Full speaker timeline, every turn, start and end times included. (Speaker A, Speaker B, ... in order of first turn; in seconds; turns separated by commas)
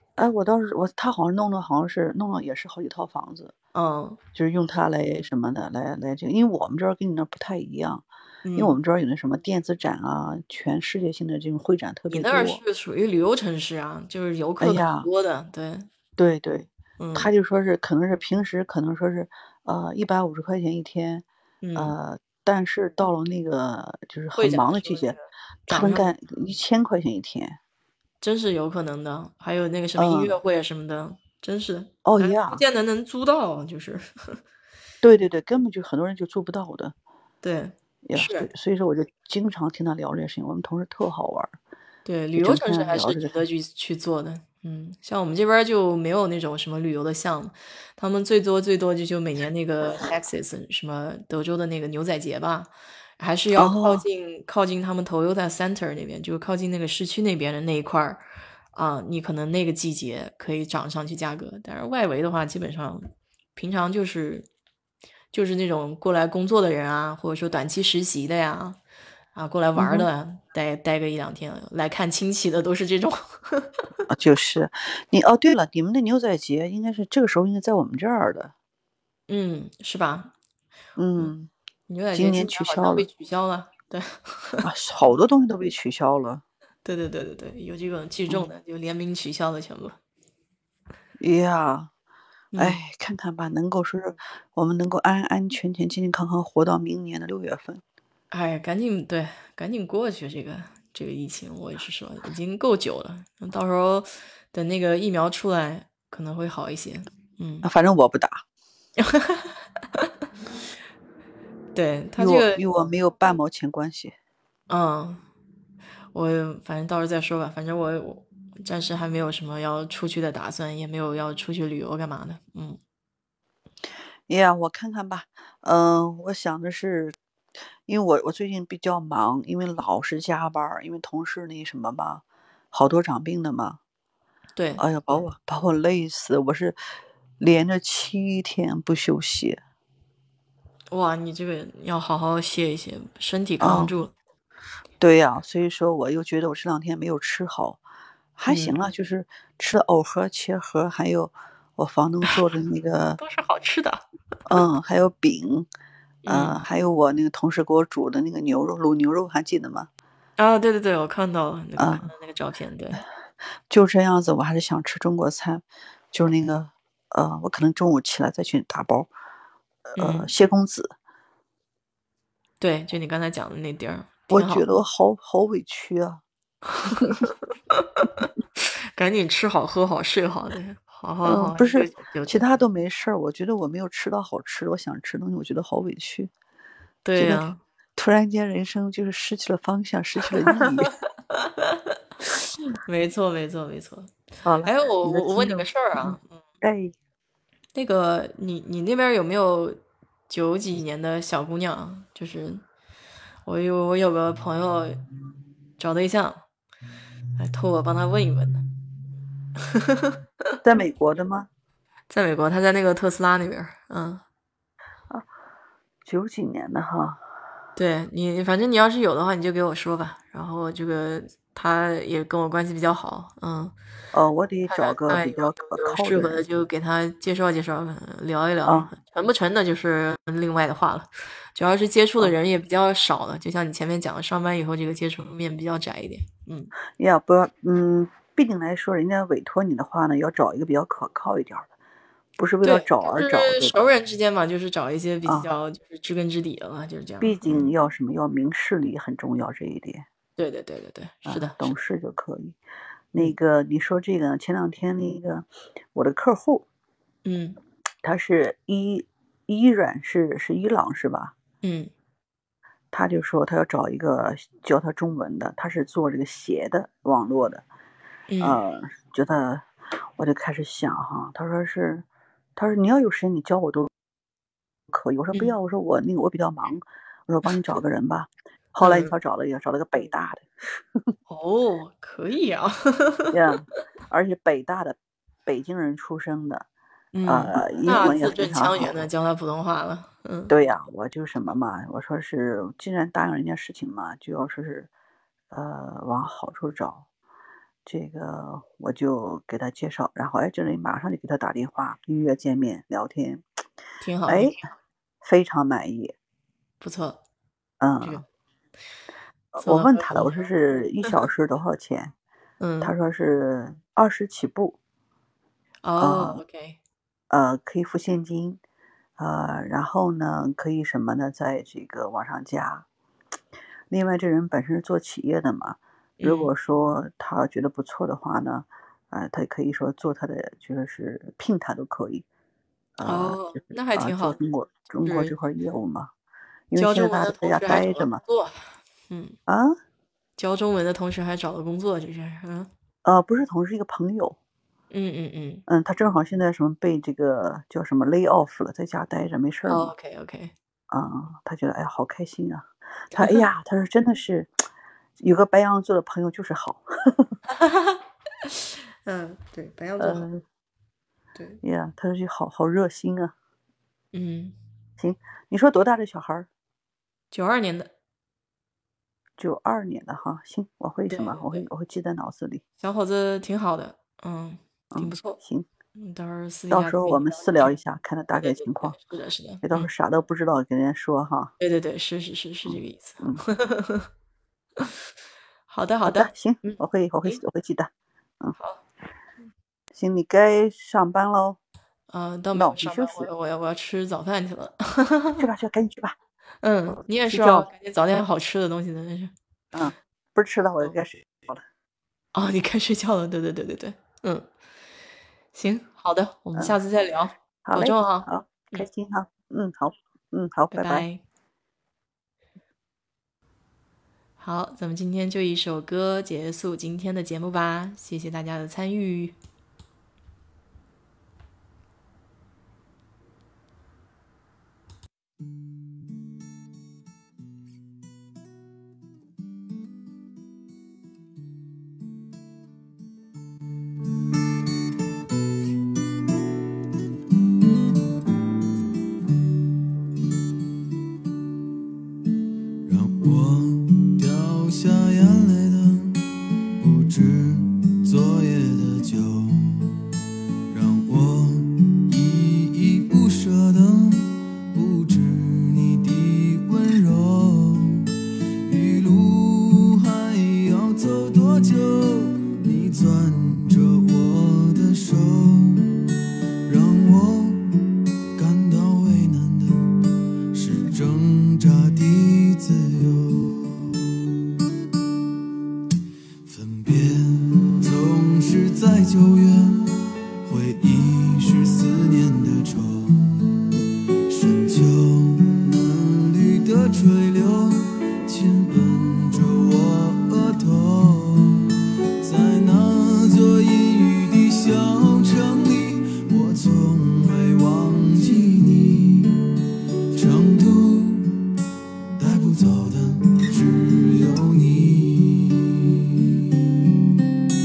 Speaker A: 0.2-3.5, Speaker B: 3.7-4.2, Speaker A: 4.3-12.6, Speaker B: 8.4-8.8, Speaker B: 12.1-15.9, Speaker A: 14.6-15.1, Speaker A: 16.2-21.2, Speaker B: 17.0-17.3, Speaker B: 21.6-21.9, Speaker A: 21.8-25.1, Speaker B: 24.4-26.1, Speaker A: 25.7-27.6, Speaker B: 28.2-34.4, Speaker A: 30.0-30.3, Speaker A: 32.0-32.6, Speaker A: 35.0-36.9, Speaker B: 37.4-38.5, Speaker A: 38.0-41.5, Speaker B: 42.0-58.2, Speaker A: 42.4-43.4, Speaker A: 53.5-54.0, Speaker B: 58.7-64.5, Speaker B: 65.3-68.8, Speaker B: 69.3-73.7, Speaker A: 69.7-70.1, Speaker A: 74.1-78.5, Speaker B: 79.3-80.3, Speaker A: 81.0-81.5, Speaker B: 81.9-84.7, Speaker A: 82.1-83.1, Speaker A: 84.6-86.4, Speaker B: 86.8-90.0, Speaker A: 91.2-91.9, Speaker B: 92.5-92.8, Speaker A: 92.6-97.8, Speaker B: 98.3-107.7, Speaker A: 107.6-108.4, Speaker B: 109.0-110.1, Speaker B: 111.7-112.6, Speaker A: 112.2-114.2, Speaker B: 114.7-115.2, Speaker B: 116.1-122.8, Speaker A: 124.3-127.2, Speaker A: 127.9-133.8, Speaker B: 134.5-134.8, Speaker A: 134.8-136.8, Speaker A: 137.4-139.6, Speaker B: 140.9-144.1, Speaker A: 143.6-143.9, Speaker A: 145.0-147.8, Speaker A: 148.3-153.2, Speaker B: 148.5-148.7, Speaker B: 153.2-154.6, Speaker A: 154.4-155.7, Speaker B: 156.2-156.6, Speaker A: 156.3-159.9, Speaker B: 160.4-163.0, Speaker A: 161.8-162.1, Speaker A: 163.7-169.1, Speaker A: 169.9-170.9, Speaker B: 170.0-170.3, Speaker B: 172.6-174.7, Speaker A: 174.3-176.2, Speaker B: 176.9-182.4, Speaker A: 181.2-186.3, Speaker B: 187.0-187.6, Speaker A: 187.2-190.9, Speaker B: 190.2-194.1, Speaker A: 194.4-196.9, Speaker B: 194.6-196.4, Speaker B: 197.7-202.6, Speaker B: 203.4-205.0, Speaker B: 205.8-206.4, Speaker B: 207.3-208.6, Speaker B: 209.6-210.2, Speaker A: 210.6-211.5, Speaker B: 212.1-214.2, Speaker A: 216.0-217.2, Speaker B: 217.8-223.7, Speaker A: 224.1-226.4, Speaker B: 224.7-236.7, Speaker A: 228.7-228.9, Speaker A: 237.0-241.7, Speaker A: 242.4-243.8, Speaker B: 242.6-247.7, Speaker A: 245.2-245.5, Speaker A: 247.2-250.1, Speaker B: 250.4-251.7, Speaker A: 251.2-252.6, Speaker A: 253.1-256.6, Speaker B: 257.2-257.6, Speaker A: 258.0-261.3, Speaker B: 261.6-261.9, Speaker A: 262.9-267.6, Speaker B: 268.3-268.6, Speaker A: 268.4-269.6, Speaker A: 270.2-273.9, Speaker A: 274.9-280.8, Speaker B: 278.8-279.1, Speaker B: 281.3-283.4, Speaker A: 283.3-286.7, Speaker B: 287.1-290.5, Speaker A: 287.2-289.0, Speaker A: 290.5-294.9, Speaker A: 295.5-297.1, Speaker A: 297.9-303.4, Speaker B: 304.0-304.6, Speaker A: 304.3-304.6, Speaker A: 305.2-306.1, Speaker B: 306.8-307.2, Speaker A: 307.8-308.2, Speaker A: 309.5-312.1, Speaker B: 309.6-310.5, Speaker B: 312.6-312.9, Speaker A: 312.8-314.8, Speaker B: 315.8-316.8, Speaker A: 316.0-316.4, Speaker A: 317.3-318.6, Speaker A: 319.2-322.9, Speaker A: 323.9-332.2, Speaker B: 326.2-326.5, Speaker A: 333.0-336.1, Speaker B: 333.0-334.4, Speaker B: 335.0-335.3, Speaker A: 336.7-338.2, Speaker B: 336.8-339.4, Speaker A: 339.5-339.8, Speaker B: 340.4-342.7, Speaker A: 343.0-344.4, Speaker B: 344.9-345.6, Speaker A: 345.7-349.9, Speaker B: 349.7-350.5, Speaker A: 350.9-354.5, Speaker B: 353.1-353.5, Speaker A: 355.2-357.3, Speaker B: 357.5-360.2, Speaker A: 360.0-360.4, Speaker B: 361.3-361.6, Speaker A: 361.6-363.3, Speaker B: 364.1-364.6, Speaker A: 365.0-366.5, Speaker B: 367.3-367.9, Speaker A: 369.4-372.6, Speaker B: 371.1-371.6, Speaker B: 372.8-375.4, Speaker A: 374.9-375.7, Speaker B: 375.9-377.7, Speaker A: 376.7-379.0, Speaker B: 378.4-379.9, Speaker A: 379.6-381.5, Speaker B: 381.6-384.1, Speaker A: 382.7-383.4, Speaker B: 385.7-387.4, Speaker A: 386.0-388.6, Speaker A: 389.9-391.6, Speaker B: 392.1-395.5, Speaker A: 392.5-393.3, Speaker A: 395.4-396.1, Speaker B: 396.6-399.3, Speaker A: 397.3-397.7, Speaker A: 399.7-401.6, Speaker B: 402.3-404.5, Speaker B: 405.5-408.9, Speaker A: 407.6-411.0, Speaker B: 410.7-411.2, Speaker B: 414.4-419.4, Speaker C: 442.8-450.1, Speaker C: 450.7-466.0, Speaker C: 466.6-467.8, Speaker C: 468.3-470.0, Speaker C: 470.5-474.0, Speaker C: 476.4-483.6, Speaker C: 484.3-499.5, Speaker C: 500.1-501.4, Speaker C: 502.1-506.9